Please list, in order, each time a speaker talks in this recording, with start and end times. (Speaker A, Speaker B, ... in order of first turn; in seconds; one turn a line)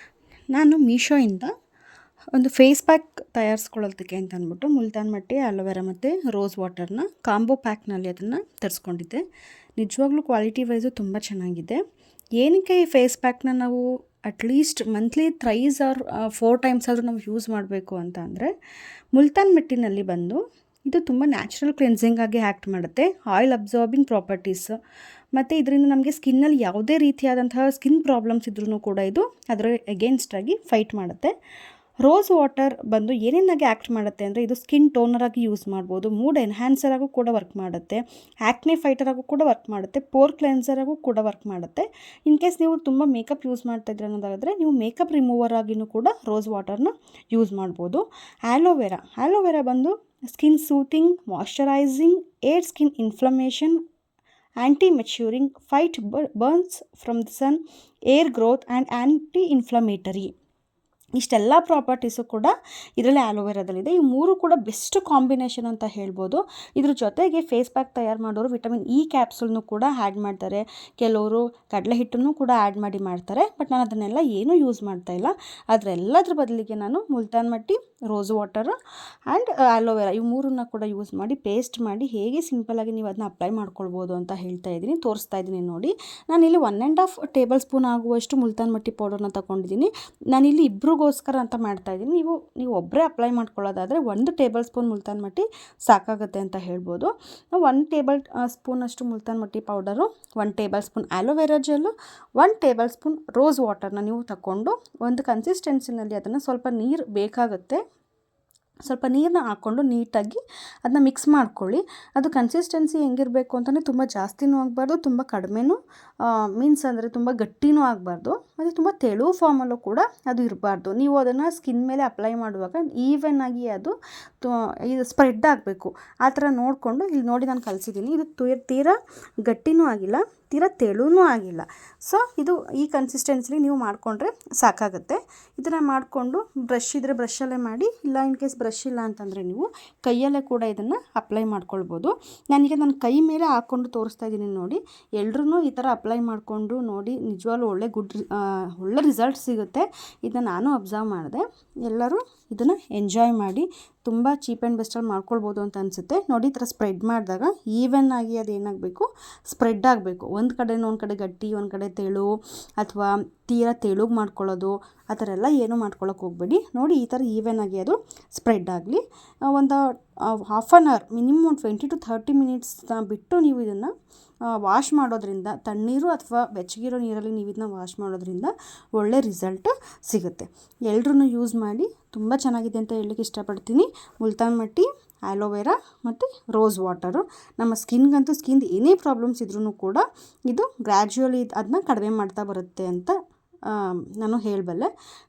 Speaker A: 0.5-1.5
Speaker A: 2.3-9.2
Speaker A: 9.8-11.8
Speaker A: 12.4-18.5
Speaker A: 19.1-24.8
Speaker A: 25.4-31.3
Speaker A: 32.0-53.8
Speaker A: 54.6-60.3
Speaker A: 61.1-78.8
Speaker A: 79.3-107.8
Speaker A: 108.8-173.9
Speaker A: 174.6-193.1
Speaker A: 193.7-194.9